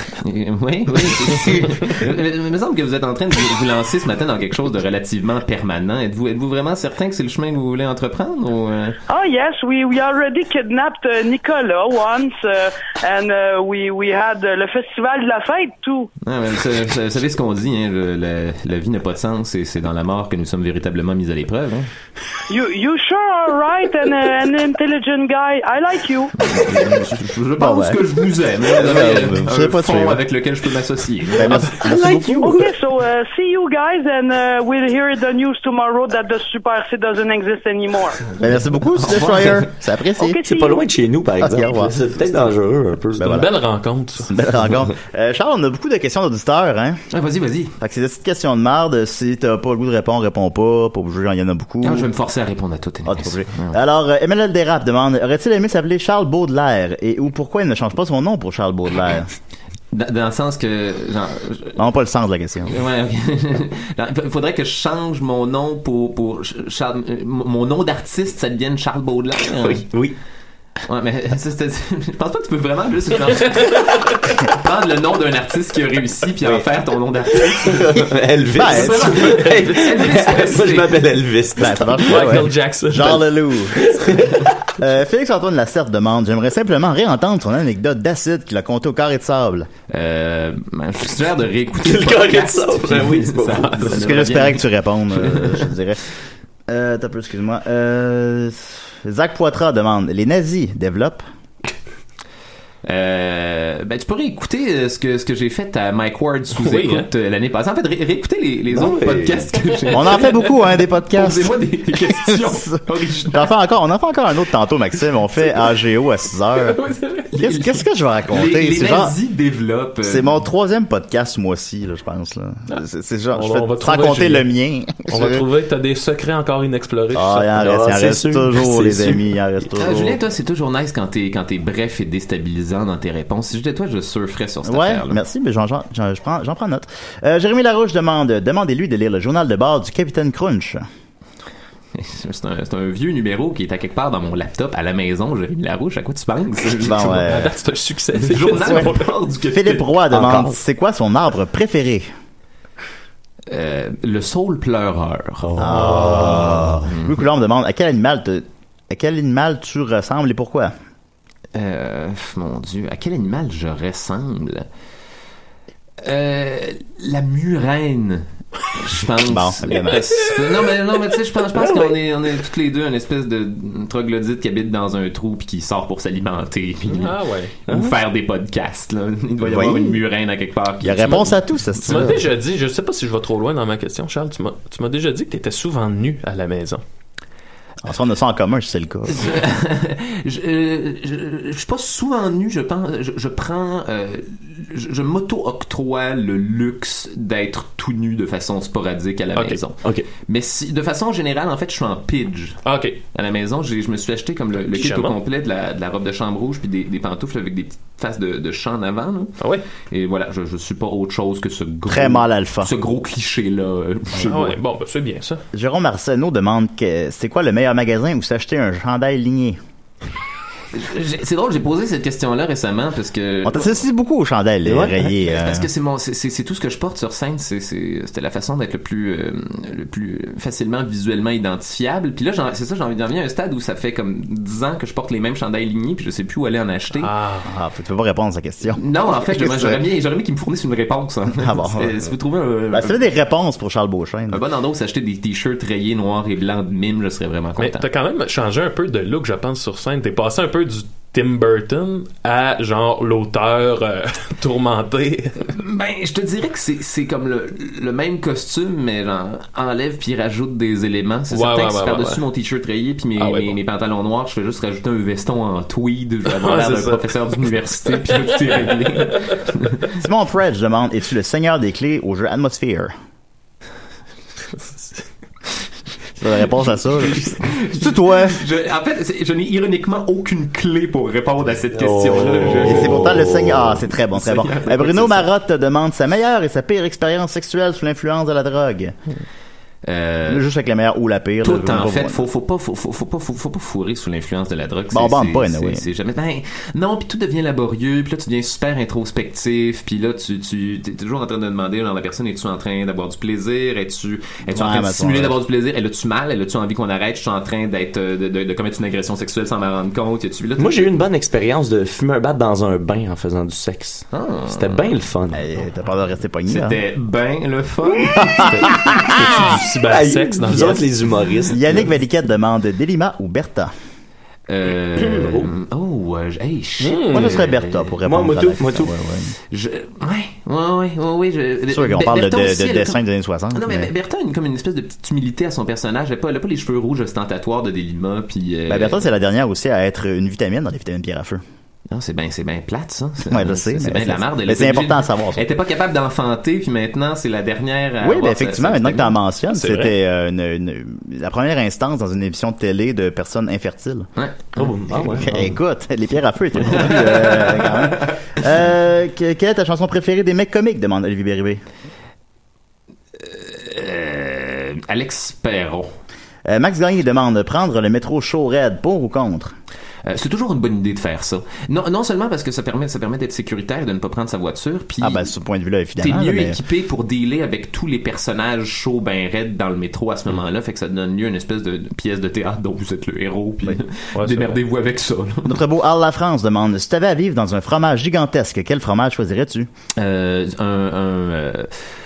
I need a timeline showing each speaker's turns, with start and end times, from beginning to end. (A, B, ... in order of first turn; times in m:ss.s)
0:00.2-0:09.0 A
0:09.1-0:16.1 B
0:16.2-0:21.9 A
0:22.5-0:26.3 B
0:26.4-0:31.6 A
0:27.6-0:28.0 C
0:28.6-0:30.2 C
0:31.4-0:32.6 C
0:31.6-0:32.7 D
0:32.4-0:38.2 B
0:38.4-0:40.4 C
0:39.0-0:39.7 A
0:40.2-0:40.8 B
0:40.4-0:43.4 D
0:41.4-0:42.0 C
0:43.2-0:43.5 C
0:43.2-0:44.3 E
0:44.2-0:47.0 C
0:47.1-0:47.7 A
0:47.8-0:52.1 C
0:51.8-0:53.8 A
0:53.0-0:59.3 C
0:59.9-1:01.8 A
1:01.8-1:02.8 C
1:02.7-1:09.9 A
1:09.5-1:10.1 D
1:10.9-1:21.1 A
1:17.6-1:22.4 D
1:18.6-1:19.3 C
1:19.2-1:19.8 E
1:21.6-1:23.8 C
1:22.1-1:23.2 E
1:23.8-1:24.5 D
1:24.8-1:29.7 C
1:29.9-1:35.7 A
1:31.8-1:34.2 D
1:33.9-1:36.0 C
1:36.7-1:41.2 C
1:42.8-1:53.5 A
1:46.6-1:47.1 E
1:48.7-1:49.5 D
1:49.9-1:52.8 C
1:53.3-1:56.8 C
1:56.6-1:57.3 E
1:57.4-1:59.2 C
1:58.3-2:00.4 A
2:00.0-2:05.4 C
2:03.3-2:04.5 E
2:05.1-2:07.5 E
2:07.2-2:10.2 C
2:07.6-2:09.2 D
2:09.8-2:15.2 A
2:14.6-2:20.8 C
2:22.0-2:27.2 A
2:26.8-2:27.5 C
2:27.0-2:29.0 E
2:28.2-2:30.0 A
2:28.6-2:28.9 C
2:29.5-2:32.1 C
2:30.1-2:30.6 D
2:33.5-2:37.2 A
2:35.5-2:35.8 D
2:35.6-2:40.8 C
2:35.7-2:36.4 E
2:41.6-2:44.7 A
2:46.0-2:57.2 A
2:49.3-2:50.0 C
2:51.5-2:52.0 D
2:56.9-2:57.5 E
2:57.7-2:58.0 D
2:57.7-3:01.4 A
2:59.4-3:00.0 C
3:00.8-3:02.2 C
3:01.8-3:06.8 E
3:07.8-3:09.3 C
3:09.1-3:34.6 A
3:22.6-3:23.0 E
3:24.7-3:25.2 E
3:31.9-3:32.7 C
3:34.2-3:35.4 E
3:35.5-3:39.6 C
3:40.7-3:43.8 A
3:43.4-3:45.7 C
3:44.6-3:45.1 D
3:45.3-3:57.1 A
3:57.0-3:57.5 E
3:57.5-3:59.8 C
3:58.8-4:03.0 A
4:01.3-4:02.1 C
4:02.7-4:04.4 C
4:04.3-4:07.8 A
4:07.6-4:15.4 E
4:15.5-4:29.9 A
4:21.3-4:22.2 E
4:23.2-4:23.6 E
4:26.3-4:27.1 E
4:27.9-4:28.7 E
4:30.0-4:32.9 C
4:36.2-4:38.4 C
4:37.0-4:43.4 A
4:41.7-4:43.8 D
4:42.6-4:49.0 C
4:44.1-4:45.3 A
4:49.8-4:50.4 A
4:50.3-4:52.2 C
4:51.4-5:10.9 A
4:54.9-4:55.8 C
5:04.5-5:05.4 C
5:10.6-5:15.4 D
5:14.1-5:14.9 A
5:15.3-5:16.8 C
5:16.5-5:18.7 A
5:18.2-5:19.5 C
5:18.4-5:20.8 E
5:19.9-5:21.8 D
5:21.5-5:23.7 C
5:24.5-5:28.0 A
5:25.0-5:25.5 D
5:26.8-5:27.4 E
5:27.1-5:29.4 C
5:28.0-5:28.9 D
5:29.5-5:33.0 A
5:31.7-5:33.9 C
5:33.5-5:39.0 A
5:38.7-5:41.4 C
5:41.9-5:49.2 A
5:43.3-5:45.4 C
5:48.0-5:54.1 C
5:49.5-5:49.9 E
5:54.2-5:54.7 A
5:54.6-5:55.6 D
5:55.0-6:01.6 C
5:56.6-5:58.2 A
6:03.2-6:05.9 A
6:06.5-6:09.6 C
6:10.0-6:15.3 A
6:15.0-6:16.6 C
6:16.0-6:25.6 A
6:24.2-6:24.6 E
6:25.5-6:29.7 C
6:30.0-6:31.9 A